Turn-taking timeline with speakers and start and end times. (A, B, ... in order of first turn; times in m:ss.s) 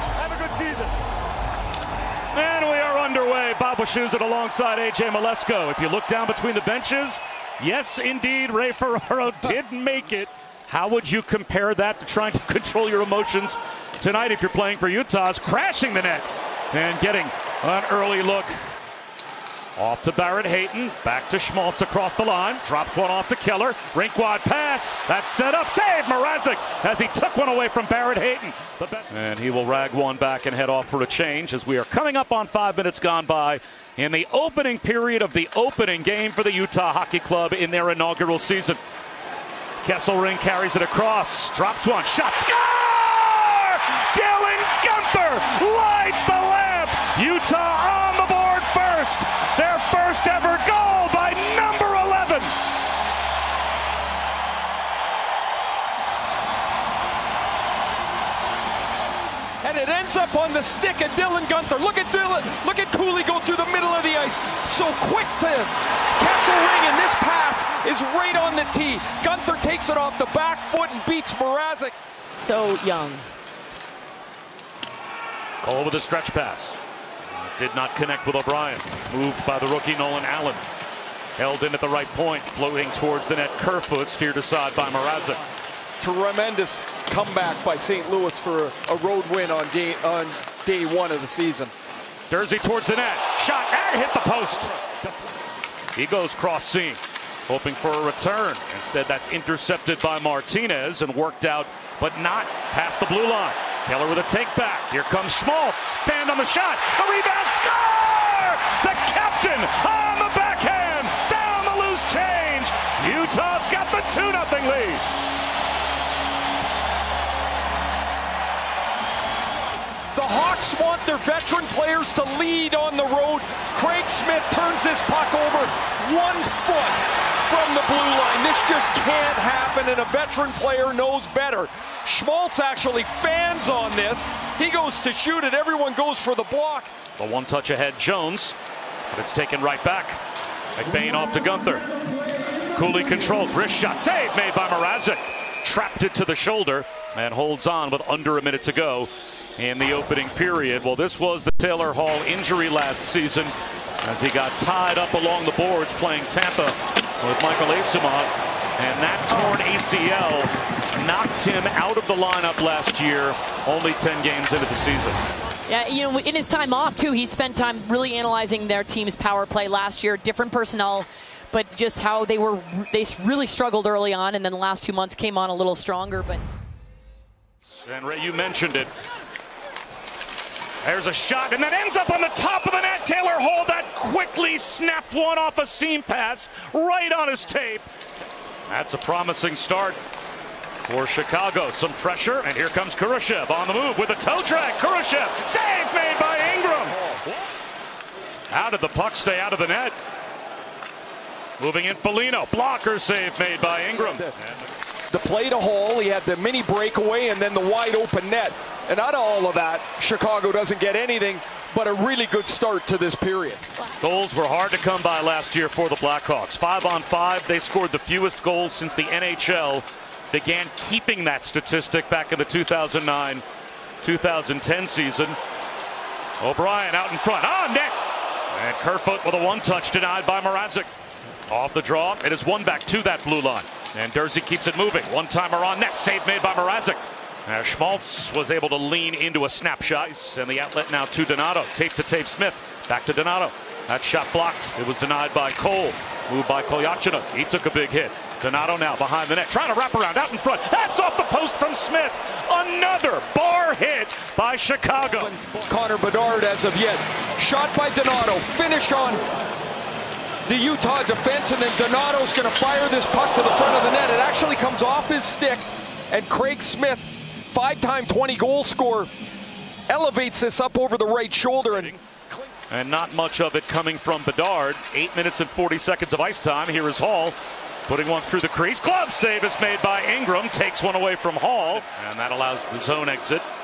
0:00.2-0:00.9 A
0:02.3-0:18.6 A
0:19.8-0:38.8 A
0:39.8-0:52.5 A
0:59.6-1:11.9 B
1:12.3-1:13.3 C
1:15.6-1:16.8 A
1:17.3-1:20.6 A
1:21.4-1:25.4 A
1:26.0-1:31.7 B
1:32.3-1:35.2 A
1:36.0-1:55.0 A
2:00.1-2:16.9 B
2:17.2-2:18.6 A
2:19.1-2:20.2 A
2:20.8-2:21.8 A
2:22.7-2:45.2 A
2:45.7-2:56.4 C
2:57.7-2:58.9 A
3:00.8-3:07.9 A
3:08.7-3:10.0 A
3:10.9-3:17.4 A
3:16.6-3:17.2 B
3:18.5-3:20.0 A
3:21.6-3:24.7 A
3:24.0-3:24.3 B
3:25.1-3:33.6 B
3:34.0-3:43.4 A
3:44.0-3:45.4 A
3:46.4-3:48.0 A
3:48.5-3:50.9 A
3:51.5-4:15.3 A
4:15.2-4:19.2 B
4:20.5-4:29.1 B
4:29.9-4:32.4 B
4:31.6-4:32.0 A
4:32.7-4:37.4 A
4:37.9-4:43.5 A